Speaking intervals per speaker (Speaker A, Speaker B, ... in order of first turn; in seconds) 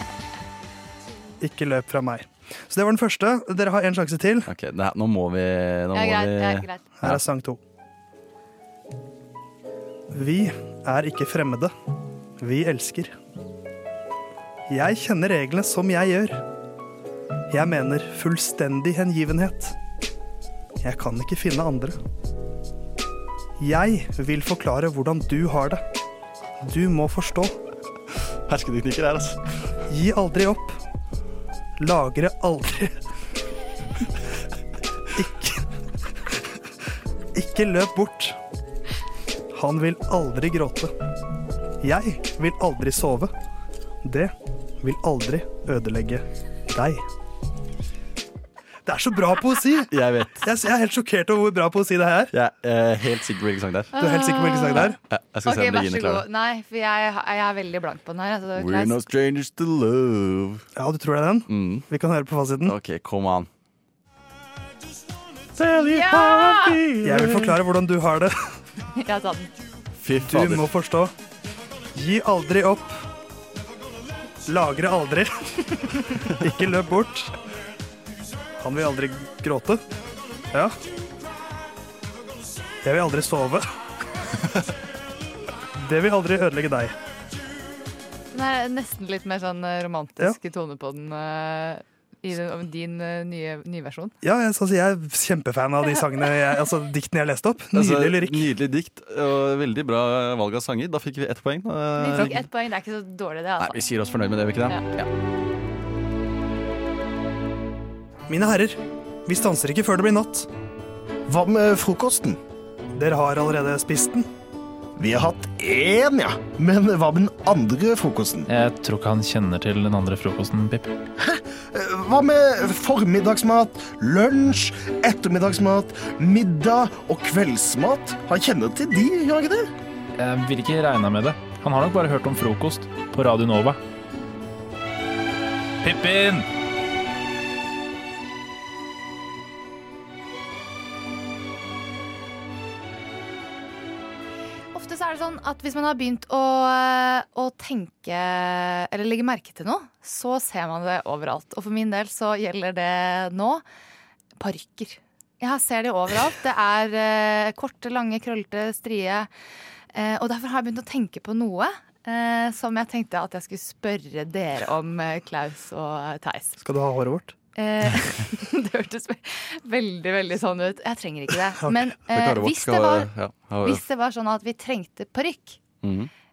Speaker A: 1.4-4.5, 7.0-7.6, 10.1-11.7, 12.4-13.2, 14.7-16.4, 17.5-19.8, 20.8-22.0, 23.6-25.8, 26.6-27.6, 29.9-30.8, 31.8-33.0, 35.1-35.6, 37.4-38.4, 39.5-40.9, 41.8-43.3, 44.0-47.0, 48.9-52.3, 54.0-55.0, 60.8-62.8, 67.0-68.3, 70.2-71.1, 71.9-73.0, 74.5-75.3, 76.3-77.3, 78.6-79.8, 80.5-80.8, 82.8-83.6, 85.8-87.0, 94.2-98.5, 108.3-110.5, 113.0-114.3, 166.6-167.4
Speaker B: 4.5-7.2, 28.5-29.4, 49.9-50.5, 52.3-54.0, 55.1-56.2, 58.5-60.6, 61.5-61.9, 62.7-63.5, 65.6-67.5, 70.0-70.7, 97.7-102.5, 103.6-105.1, 172.1-173.8, 175.8-176.1
Speaker C: 5.9-7.0, 54.0-59.1, 65.8-66.8, 69.0-69.5, 88.3-94.1, 102.0-103.8, 144.7-153.6, 154.4-159.3, 159.9-166.6, 167.6-173.1, 173.6-175.6
Speaker D: 111.3-112.4, 115.0-118.5, 121.2-129.7
Speaker E: 118.5-121.0, 130.2-133.8, 135.8-136.5